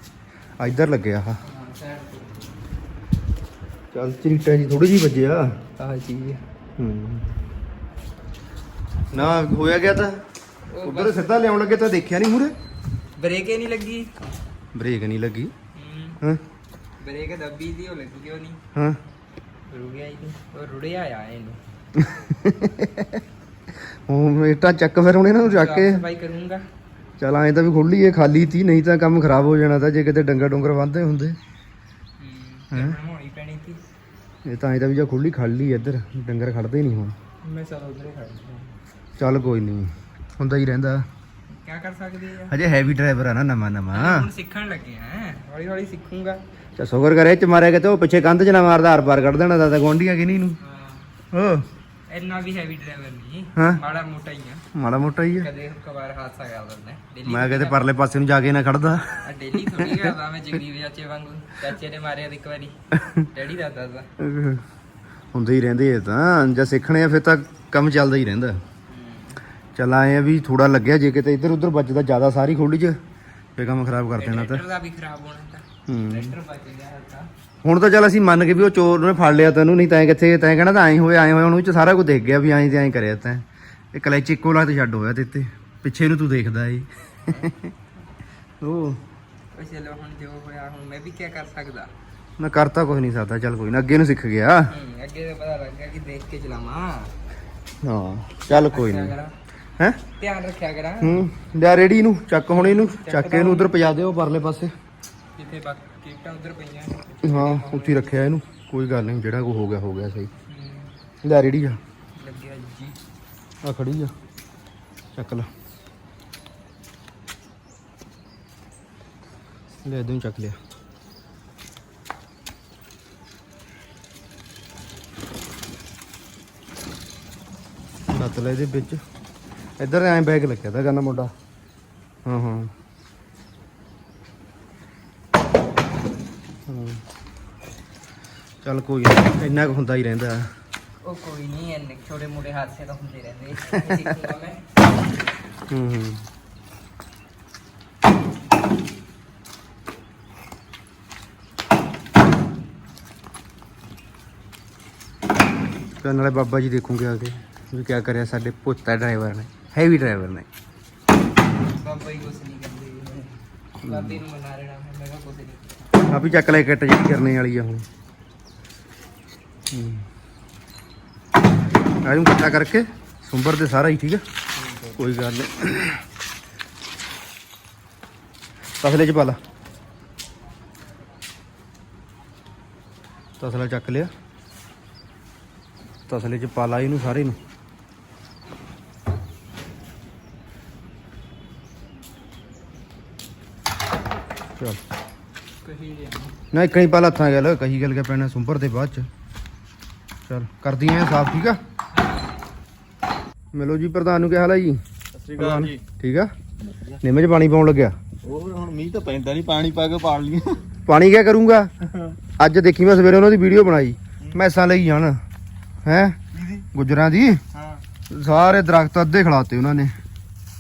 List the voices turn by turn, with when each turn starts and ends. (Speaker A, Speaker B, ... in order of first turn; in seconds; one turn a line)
Speaker A: 0.6-1.4
Speaker B: 1.4-2.5
Speaker A: 3.9-5.5
Speaker B: 5.8-6.4
Speaker A: 6.8-7.3
Speaker A: 9.1-10.2
Speaker B: 10.7-11.3
Speaker A: 10.8-12.5
Speaker B: 13.2-14.1
Speaker A: 14.7-15.5
Speaker B: 15.7-16.2
Speaker B: 17.0-18.6
Speaker A: 18.7-19.0
Speaker B: 19.7-21.6
Speaker A: 21.9-23.2
Speaker A: 24.1-26.0
Speaker B: 25.4-26.6
Speaker A: 27.2-31.4
Speaker B: 32.2-33.8
Speaker A: 32.7-33.0
Speaker A: 34.4-37.1
Speaker B: 37.4-38.7
Speaker A: 39.2-41.0
Speaker B: 41.5-42.5
Speaker A: 42.5-44.3
Speaker B: 43.9-46.4
Speaker A: 46.8-50.6
Speaker B: 50.6-51.0
Speaker A: 51.3-51.6
Speaker B: 52.1-54.6
Speaker A: 54.7-55.5
Speaker B: 55.4-57.8
Speaker A: 57.3-60.1
Speaker B: 59.2-62.7
Speaker A: 62.9-63.3
Speaker B: 63.3-64.1
Speaker A: 64.2-64.6
Speaker A: 65.3-68.6
Speaker B: 68.9-69.4
Speaker A: 69.7-73.0
Speaker A: 73.6-74.6
Speaker B: 74.2-77.3
Speaker A: 75.9-76.3
Speaker A: 77.6-87.7
Speaker A: 88.6-89.0
Speaker B: 89.5-91.9
Speaker A: 92.4-94.7
Speaker B: 94.7-97.1
Speaker A: 97.8-99.1
Speaker B: 98.5-99.3
Speaker B: 100.2-101.2
Speaker A: 101.0-104.7
Speaker B: 102.5-103.7
Speaker B: 105.4-108.2
Speaker A: 107.2-110.3
Speaker B: 110.5-110.9
Speaker A: 111.2-111.8
Speaker B: 112.2-113.0
Speaker A: 113.6-114.1
Speaker A: 115.1-115.5
Speaker A: 119.8-120.6
Speaker A: 128.1-129.0
Speaker A: 129.8-131.3
Speaker A: 132.2-132.7
Speaker A: 136.7-137.0
Speaker A: 138.6-140.5
Speaker B: 141.0-144.6
Speaker A: 143.7-144.0
Speaker A: 145.7-146.2
Speaker A: 156.0-160.4
Speaker B: 161.7-165.8
Speaker A: 163.8-164.2
Speaker A: 166.1-167.8
Speaker A: 169.7-170.1
Speaker A: 172.0-174.2
Speaker A: 175.0-176.0
Speaker A: 178.8-179.4
Speaker A: 183.4-184.1
Speaker A: 186.1-187.4
Speaker B: 195.6-196.3
Speaker A: 196.5-199.1
Speaker A: 200.3-201.6
Speaker A: 203.5-204.8
Speaker C: 205.1-205.8
Speaker A: 205.4-206.3
Speaker C: 206.6-207.0
Speaker A: 207.0-208.0
Speaker C: 208.2-210.6
Speaker A: 210.9-211.7
Speaker C: 211.8-212.2
Speaker A: 212.4-215.2
Speaker A: 215.8-216.2
Speaker C: 216.3-216.7
Speaker A: 216.7-217.4
Speaker C: 217.5-217.8
Speaker A: 218.1-219.9